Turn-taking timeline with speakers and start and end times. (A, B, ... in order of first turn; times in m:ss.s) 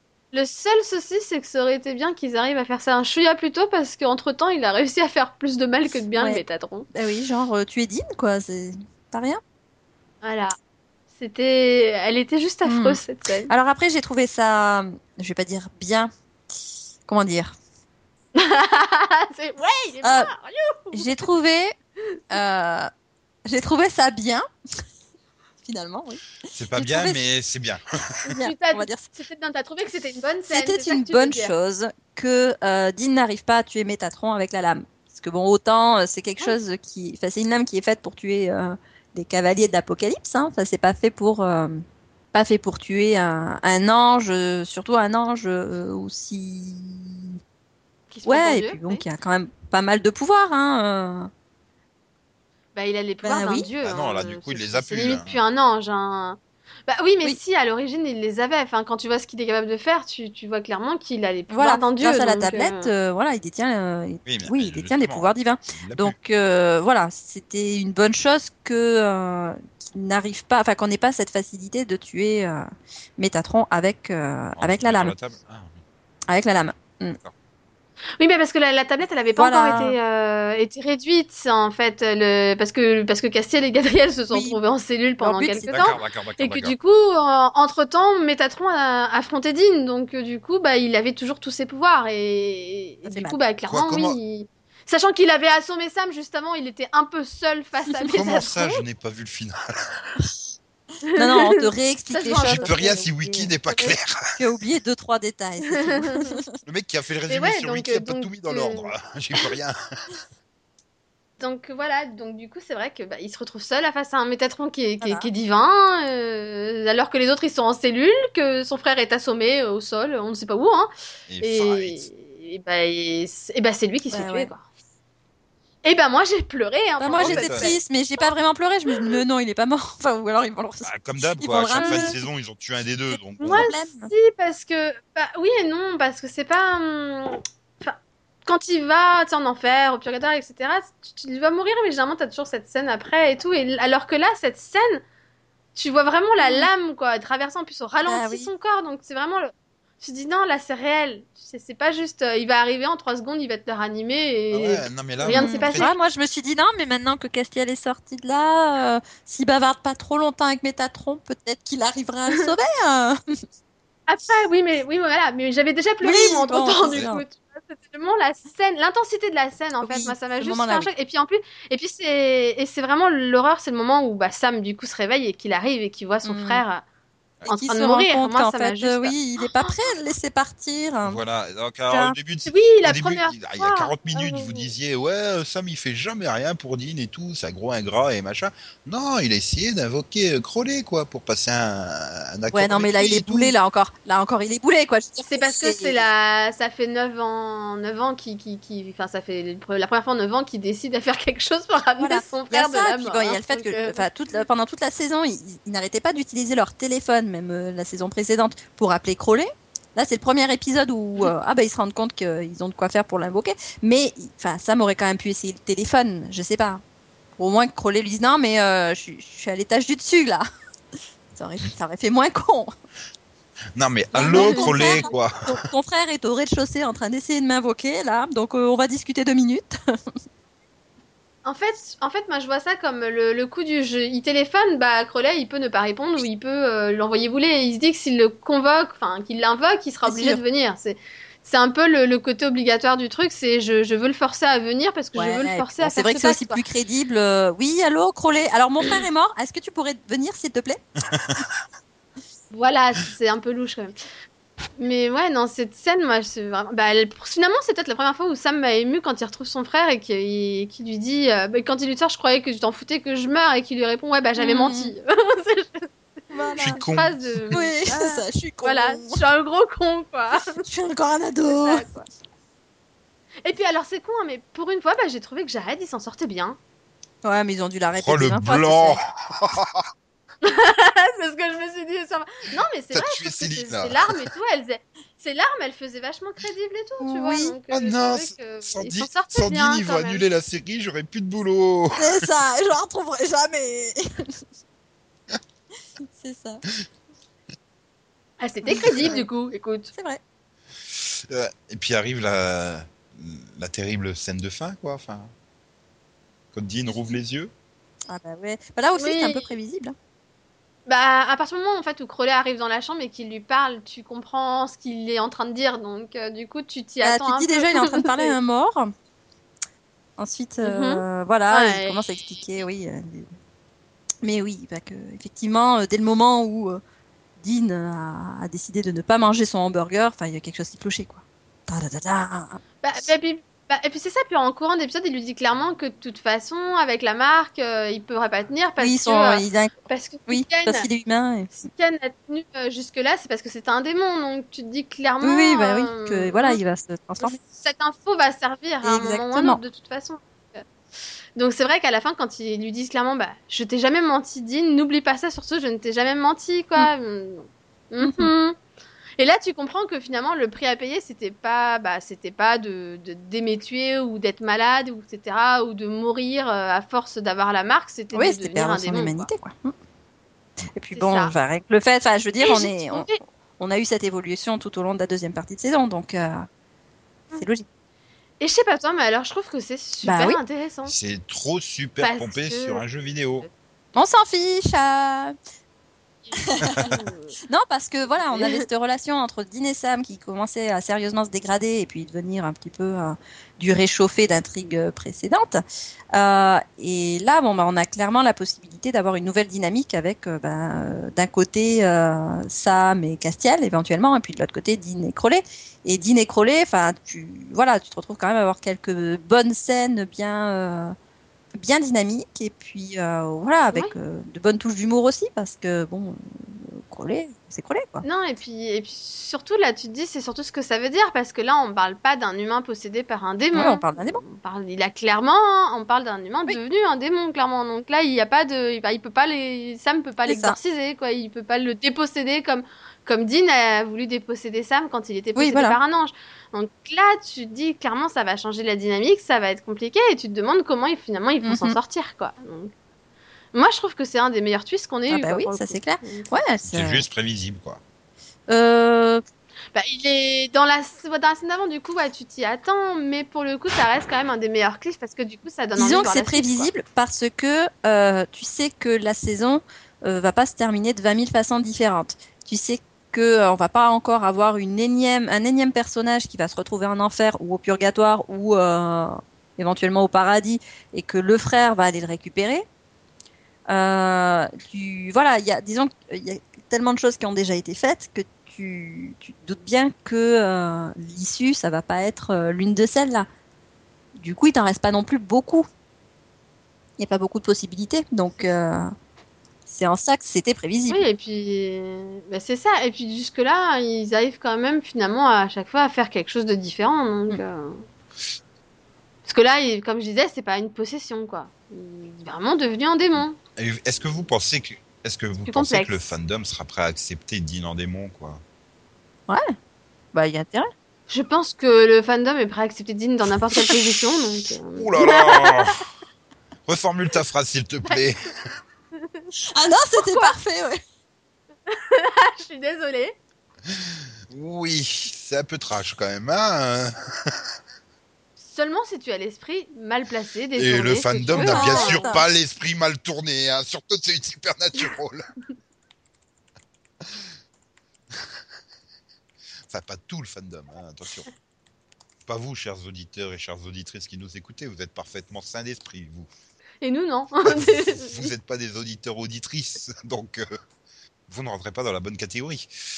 0:00.3-0:06.9 A
0:06.2-0:09.4 B
0:10.2-0:10.6 A
0:11.2-0:13.5 A
0:12.6-0:16.1 B
0:17.1-0:17.6 B
0:18.4-0:21.3 A
0:20.0-0:20.3 B
0:20.9-0:21.7 B
0:22.3-0:22.9 B
0:23.5-0:24.4 B
0:25.6-0:27.2 B
0:26.5-0:27.8 C
0:28.2-0:31.5 A
0:28.3-0:29.1 B
0:30.5-0:47.4 B
0:48.1-0:49.0 A
0:48.2-0:51.3 B
0:52.8-1:02.9 A
0:53.2-0:53.7 B
0:53.8-0:55.4 C
1:01.5-1:12.7 B
1:04.2-1:06.1 C
1:13.2-1:15.1 B
1:14.6-1:15.8 C
1:16.3-1:17.2 B
1:18.2-1:38.8 A
1:19.4-1:20.0 B
1:24.3-1:24.6 B
1:25.2-1:26.0 B
1:25.7-1:26.8 C
1:33.1-1:33.4 B
1:33.7-1:34.2 C
1:38.0-1:38.4 B
1:38.1-1:40.2 C
1:41.1-1:43.1 A
1:41.2-1:43.5 B
1:42.5-1:44.2 C
1:43.7-1:44.0 A
1:44.4-1:46.5 B
1:45.6-1:46.4 A
1:46.6-1:49.8 C
1:47.3-1:49.5 A
1:51.4-2:00.9 A
1:55.0-1:55.3 B
2:01.3-2:02.1 C
2:01.4-2:04.6 A
2:04.1-2:04.5 B
2:05.8-2:07.8 A
2:07.0-2:12.2 B
2:07.2-2:07.7 C
2:10.8-2:13.7 C
2:11.7-2:12.2 A
2:13.4-2:25.0 A
2:13.5-2:14.1 B
2:25.8-2:35.9 A
2:26.4-2:26.7 B
2:28.1-2:28.5 B
2:34.5-2:35.9 C
2:35.2-2:43.2 B
2:44.1-2:56.8 A
2:46.0-2:47.2 B
2:46.8-2:47.1 C
2:49.8-2:50.9 B
2:56.2-2:56.6 B
2:57.5-2:59.7 A
2:57.5-3:01.2 B
3:01.0-3:13.5 C
3:01.9-3:02.1 B
3:02.5-3:04.7 A
3:12.5-3:16.0 B
3:15.3-3:24.1 A
3:22.0-3:36.8 B
3:37.4-3:40.4 B
3:41.4-3:42.7 B
3:43.8-3:45.5 C
3:44.1-3:49.8 B
3:44.2-3:45.1 A
3:51.4-4:06.6 A
4:00.0-4:00.4 B
4:05.1-4:10.8 B
4:11.1-4:11.5 C
4:12.5-4:14.0 A
4:14.8-4:25.9 A
4:24.4-4:24.9 B
4:26.3-4:26.8 B
4:26.5-4:30.6 A
4:26.6-4:27.6 C
4:27.5-4:29.2 B
4:30.6-4:31.9 B
4:31.5-4:32.1 A
4:33.4-4:36.6 A
4:37.2-4:39.0 B
4:38.0-4:39.8 C
4:40.4-4:50.2 A
4:42.9-4:44.2 C
4:47.0-4:47.5 B
4:47.7-4:52.3 C
4:52.0-4:54.4 B
4:56.0-4:56.6 B
4:58.4-4:59.9 A
4:58.7-4:59.3 B
4:59.9-5:00.2 B
5:00.9-5:05.3 C
5:06.5-5:07.5 C
5:08.1-5:10.0 B
5:09.0-5:09.5 A
5:10.9-5:18.4 A
5:17.0-5:18.9 B
5:20.2-5:23.3 B
5:20.6-5:22.0 A
5:24.2-5:26.8 B
5:27.4-5:32.6 B
5:32.8-5:40.9 A
5:38.8-5:39.7 B
5:40.3-5:41.7 B
5:41.7-5:46.6 A
5:45.2-5:47.4 B
5:47.2-5:50.6 A
5:48.8-5:49.6 B
5:51.4-5:58.6 A
5:58.0-5:58.3 B
5:59.2-6:09.3 A
6:08.1-6:09.7 B
6:10.7-6:16.5 B
6:10.9-6:11.3 A
6:12.4-6:13.2 A
6:17.4-6:17.7 B
6:18.4-6:20.9 A
6:20.0-6:20.4 B
6:20.9-6:23.5 C
6:22.0-6:22.8 A
6:23.9-6:25.4 B
6:26.2-6:27.4 A
6:26.4-6:26.9 B
6:27.5-6:35.6 B
6:28.2-6:28.6 A
6:36.1-6:51.0 B
6:51.6-6:58.0 B
6:58.0-7:22.7 A
7:03.5-7:04.2 B
7:10.3-7:10.6 B
7:15.4-7:15.8 B
7:21.4-7:21.8 B
7:23.5-7:26.3 A
7:25.1-7:27.0 B
7:26.7-7:27.8 C
7:28.5-7:29.2 B
7:29.7-7:36.7 A
7:35.8-7:52.6 B
7:53.7-8:03.3 B
8:04.2-8:05.7 B
8:07.0-8:08.9 B
8:09.7-8:11.0 B
8:10.9-8:17.8 A
8:19.3-8:23.4 A
8:23.2-8:28.4 C
8:25.4-8:26.1 A
8:30.1-8:30.7 B
8:31.1-8:35.8 A
8:33.5-8:33.8 B
8:34.8-8:35.8 C
8:36.7-8:38.2 C
8:39.0-8:39.3 A
8:39.5-8:40.8 B
8:40.0-8:40.4 A
8:41.7-8:43.2 A
8:43.7-8:47.4 C
8:48.4-8:52.1 A
8:50.6-8:55.2 C
8:51.3-8:52.3 B
8:59.7-9:01.3 C
9:02.3-9:06.3 C
9:06.8-9:08.3 A
9:07.5-9:10.5 C
9:11.3-9:12.7 C